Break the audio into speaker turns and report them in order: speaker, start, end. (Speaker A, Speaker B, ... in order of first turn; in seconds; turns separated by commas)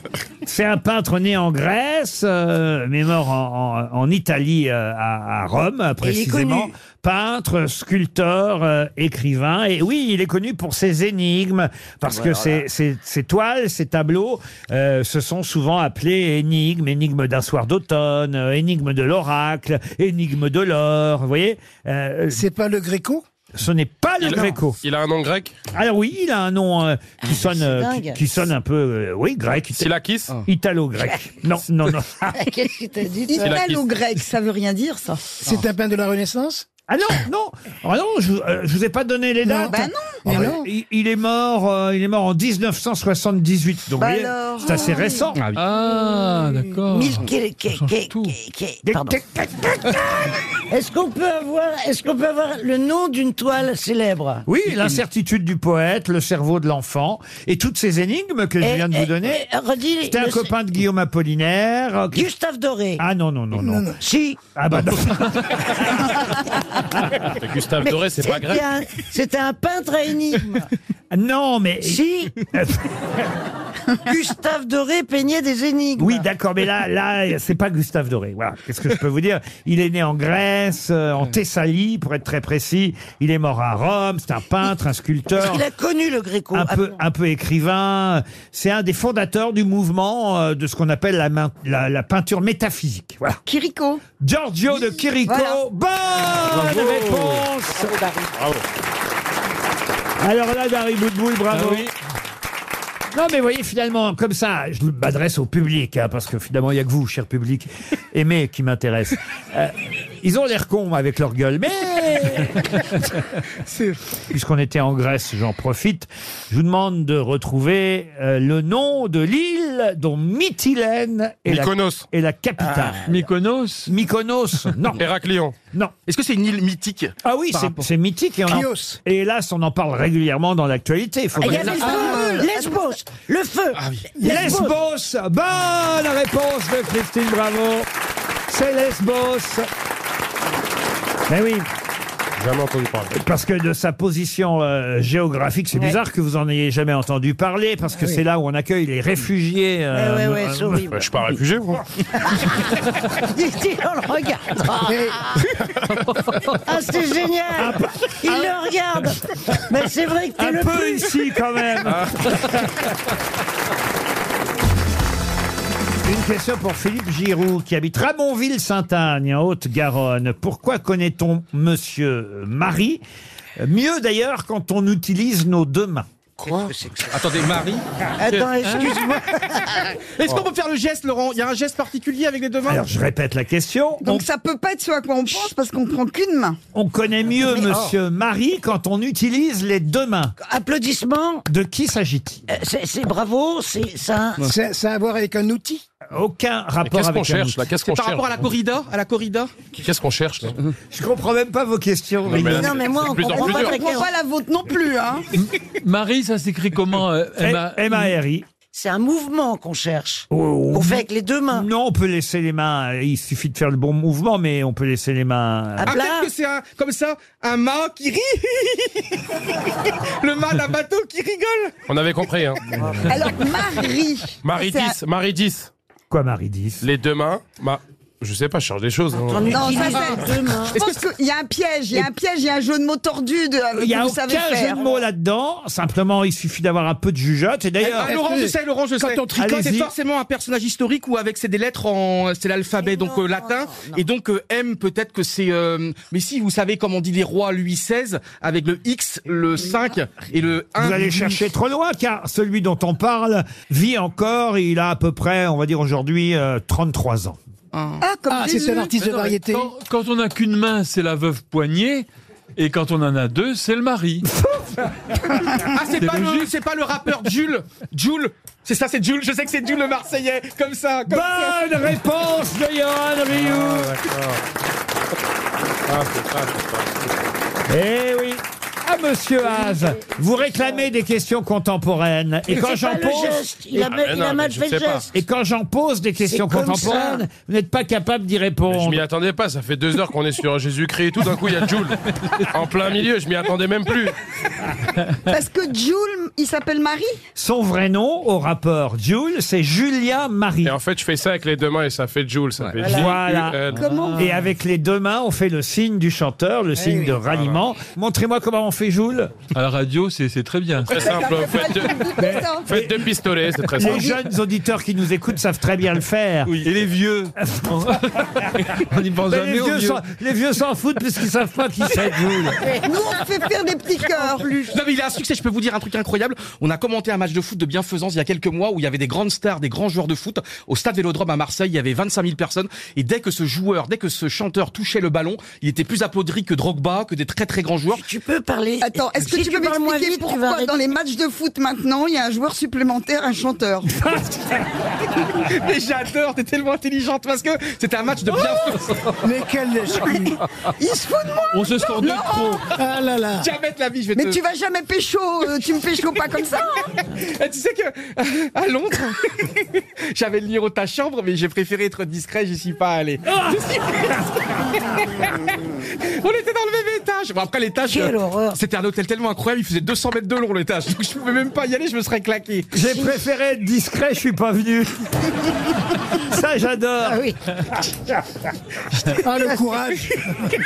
Speaker A: 0.4-22.4, Speaker B: 6.0-6.7, Speaker B: 12.1-12.6, Speaker C: 22.3-23.2, Speaker A: 23.5-24.8, Speaker D: 24.2-25.6, Speaker A: 25.7-29.9, Speaker B: 27.2-28.2, Speaker D: 29.7-30.4, Speaker A: 30.4-32.4, Speaker B: 32.3-33.6, Speaker E: 33.3-35.4, Speaker D: 33.4-33.8, Speaker C: 35.4-36.6, Speaker A: 36.9-45.4, Speaker E: 39.7-40.2, Speaker C: 40.2-40.6, Speaker E: 44.0-45.3, Speaker F: 45.4-45.6, Speaker G: 45.5-48.4, Speaker B: 46.9-49.2, Speaker A: 48.8-50.0, Speaker B: 50.7-54.5, Speaker A: 54.5-59.5, Speaker B: 58.6-60.5, Speaker A: 60.0-62.3, Speaker B: 62.1-63.0, Speaker A: 63.0-63.9, Speaker C: 63.6-64.0, Speaker B: 64.0-64.4, Speaker A: 64.5-65.4, Speaker D: 67.4-68.7, Speaker B: 67.8-70.7, Speaker A: 71.1-72.8, Speaker B: 71.8-72.3, Speaker B: 74.0-76.2, Speaker A: 76.0-85.7, Speaker B: 85.3-86.9, Speaker A: 86.5-93.4, Speaker E: 93.5-94.0, Speaker A: 94.2-97.9, Speaker E: 95.2-95.6, Speaker G: 96.6-97.3, Speaker D: 98.3-98.6, Speaker A: 100.2-101.9, Speaker G: 101.5-101.9, Speaker A: 103.1-112.6, Speaker C: 113.7-114.0, Speaker A: 114.3-123.1, Speaker D: 121.5-122.1, Speaker B: 122.8-123.2, Speaker G: 123.0-123.9, Speaker A: 123.9-125.0, Speaker D: 125.0-125.5, Speaker F: 126.1-127.1, Speaker A: 127.2-132.0, Speaker C: 128.5-129.0, Speaker B: 131.4-134.7, Speaker F: 131.4-132.2, Speaker E: 131.5-132.8, Speaker C: 131.8-132.5, Speaker F: 133.8-134.0, Speaker C: 134.2-134.6, Speaker A: 134.2-137.9, Speaker A: 138.5-139.7, Speaker A: 141.3-141.7, Speaker D: 142.4-143.1, Speaker A: 143.1-150.9, Speaker B: 149.9-151.0, Speaker D: 150.9-151.8, Speaker B: 153.3-155.3, Speaker B: 156.6-161.1, Speaker A: 157.6-158.5, Speaker A: 160.4-162.7, Speaker A: 166.0-173.0, Speaker A: 173.6-176.1, Speaker B: 176.4-177.2, Speaker F: 177.1-178.8, Speaker B: 178.2-179.6, Speaker F: 180.2-182.8, Speaker A: 182.6-184.2, Speaker E: 184.0-186.6, Speaker A: 186.7-190.3, Speaker B: 190.4-191.4, Speaker A: 191.5-192.4, Speaker B: 192.5-194.4, Speaker C: 194.4-195.8, Speaker A: 196.1-197.7, Speaker D: 196.8-198.4, Speaker F: 197.8-199.5, Speaker D: 199.8-200.6, Speaker A: 200.9-202.9, Speaker D: 202.2-203.8, Speaker B: 202.4-204.1, Speaker E: 203.3-205.2, Speaker G: 205.3-208.1, Speaker A: 207.4-208.4, Speaker B: 208.7-211.7, Speaker A: 210.3-215.9, Speaker B: 215.8-216.3, Speaker F: 215.8-219.2, Speaker F: 220.2-221.8, Speaker D: 221.9-222.6, Speaker B: 222.8-223.1, Speaker E: 223.1-224.9, Speaker D: 224.4-225.7, Speaker A: 226.1-226.8, Speaker D: 226.8-229.6, Speaker B: 229.3-230.8, Speaker E: 229.5-234.8, Speaker A: 233.8-238.2, Speaker C: 237.9-239.6, Speaker F: 237.9-251.4, Speaker A: 239.3-239.9, Speaker B: 242.8-244.0, Speaker A: 250.8-257.4, Speaker F: 257.7-258.0, Speaker E: 258.0-258.9, Speaker C: 258.3-259.7, Speaker G: 259.0-262.1, Speaker G: 262.6-264.2, Speaker A: 264.3-264.9, Speaker F: 265.7-271.6, Speaker G: 266.0-266.5, Speaker A: 271.1-274.0, Speaker D: 273.4-274.4, Speaker D: 275.9-277.1, Speaker A: 277.7-283.4, Speaker B: 282.5-285.1, Speaker D: 283.8-285.0, Speaker A: 285.1-289.0, Speaker B: 286.2-287.2, Speaker D: 288.7-291.9, Speaker D: 292.5-294.1, Speaker E: 295.3-297.2, Speaker A: 297.4-300.8, Speaker D: 300.6-303.9, Speaker A: 302.8-303.6, Speaker G: 303.7-304.4, Speaker E: 303.8-304.2, Speaker A: 304.1-309.4, Speaker C: 306.8-307.1, Speaker D: 307.3-307.6, Speaker G: 309.5-311.0, Speaker D: 310.9-314.1, Speaker E: 311.0-312.7, Speaker A: 312.2-313.1, Speaker A: 313.7-316.6, Speaker E: 313.8-314.2, Speaker G: 316.6-318.2, Speaker A: 317.4-317.9, Speaker G: 318.7-320.0, Speaker A: 319.3-322.6, Speaker E: 322.8-324.7, Speaker F: 324.7-338.0, Speaker B: 337.9-340.8, Speaker E: 338.8-344.0, Speaker F: 345.3-348.9, Speaker C: 349.2-350.4, Speaker E: 350.8-352.6, Speaker G: 351.5-352.6, Speaker C: 352.7-353.5, Speaker F: 353.4-354.4, Speaker E: 354.1-356.8, Speaker F: 357.2-372.7, Speaker B: 367.8-368.6, Speaker A: 372.7-374.9, Speaker B: 372.8-373.1, Speaker A: 376.2-377.2, Speaker B: 377.0-377.4, Speaker C: 379.2-380.3